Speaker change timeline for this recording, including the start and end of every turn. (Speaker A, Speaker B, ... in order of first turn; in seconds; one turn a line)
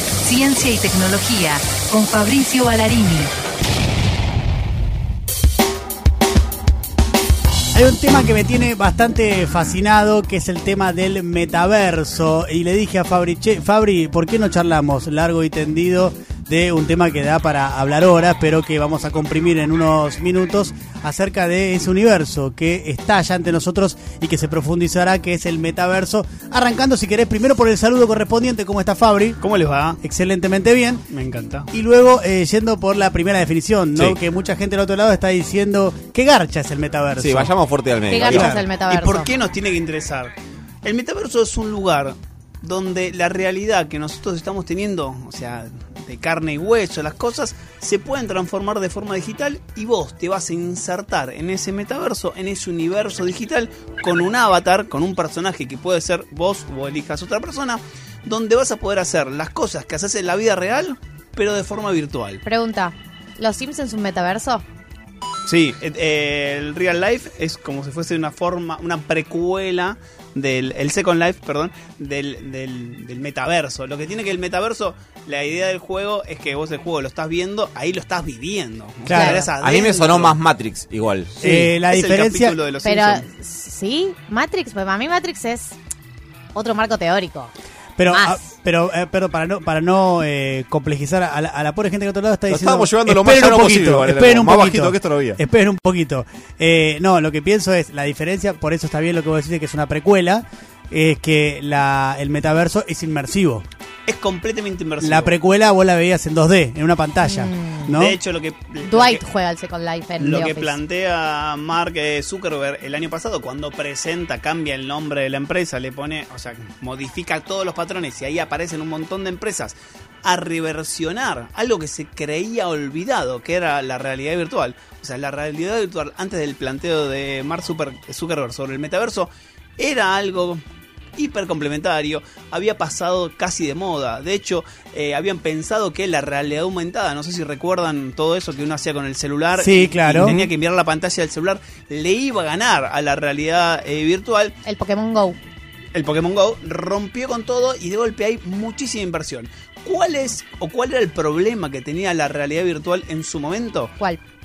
Speaker A: 0.2-3.3
Speaker B: 7.7-29.4
Speaker C: 29.4-30.0
Speaker B: 30.0-31.0
Speaker C: 31.1-31.7
Speaker B: 31.7-37.5
Speaker D: 37.2-38.6
Speaker E: 38.1-39.3
Speaker B: 38.2-38.6
Speaker C: 38.9-62.4
Speaker E: 62.4-64.6
Speaker C: 65.4-80.4
Speaker B: 79.0-79.4
Speaker E: 79.1-79.5
Speaker D: 79.6-81.3
Speaker C: 81.4-83.3
Speaker B: 81.4-82.6
Speaker E: 82.8-85.8
Speaker E: 86.5-87.5
Speaker B: 88.0-103.6
Speaker E: 88.1-88.4
Speaker D: 92.5-95.4
Speaker C: 104.0-105.3
Speaker B: 105.0-108.2
Speaker E: 107.2-107.8
Speaker C: 107.9-109.2
Speaker E: 108.8-110.8
Speaker C: 110.2-130.6
Speaker C: 131.2-144.5
Speaker B: 139.5-140.4
Speaker E: 144.6-145.4
Speaker C: 145.9-153.9